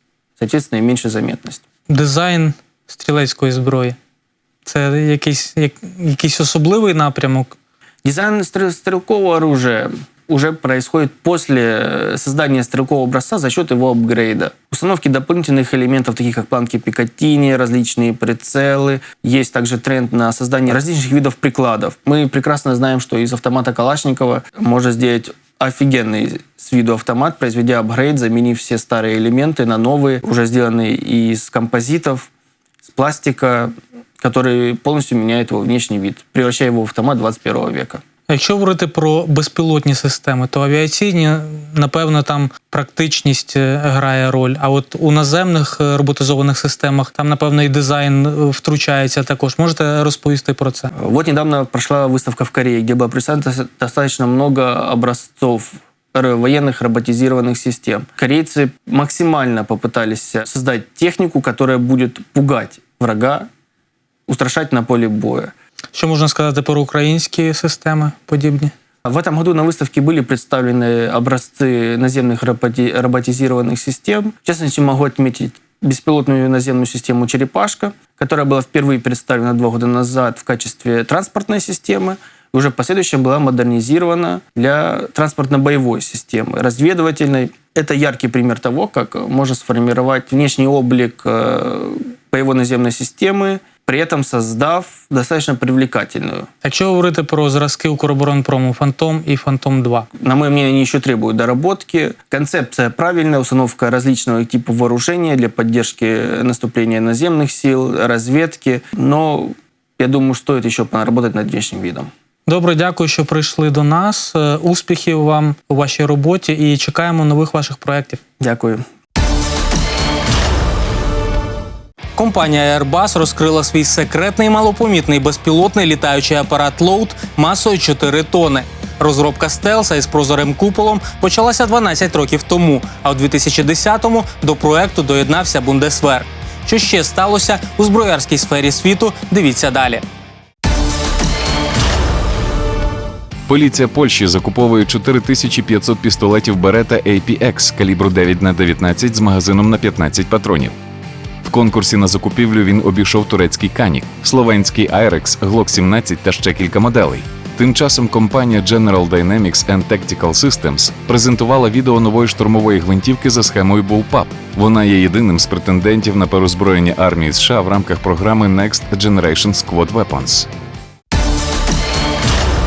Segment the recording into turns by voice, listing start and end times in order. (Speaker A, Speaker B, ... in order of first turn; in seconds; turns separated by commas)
Speaker A: 0.4-1.6, Speaker B: 1.9-4.0, Speaker B: 4.6-7.5, Speaker A: 8.0-32.3, Speaker A: 32.8-38.0, Speaker B: 38.3-50.9, Speaker A: 50.9-63.5, Speaker A: 64.3-65.5, Speaker B: 65.9-68.7, Speaker A: 69.0-96.5, Speaker B: 96.6-100.1, Speaker A: 100.2-112.1, Speaker B: 112.5-118.2, Speaker A: 118.4-118.8, Speaker B: 122.2-140.0, Speaker C: 143.5-150.8, Speaker C: 151.4-170.5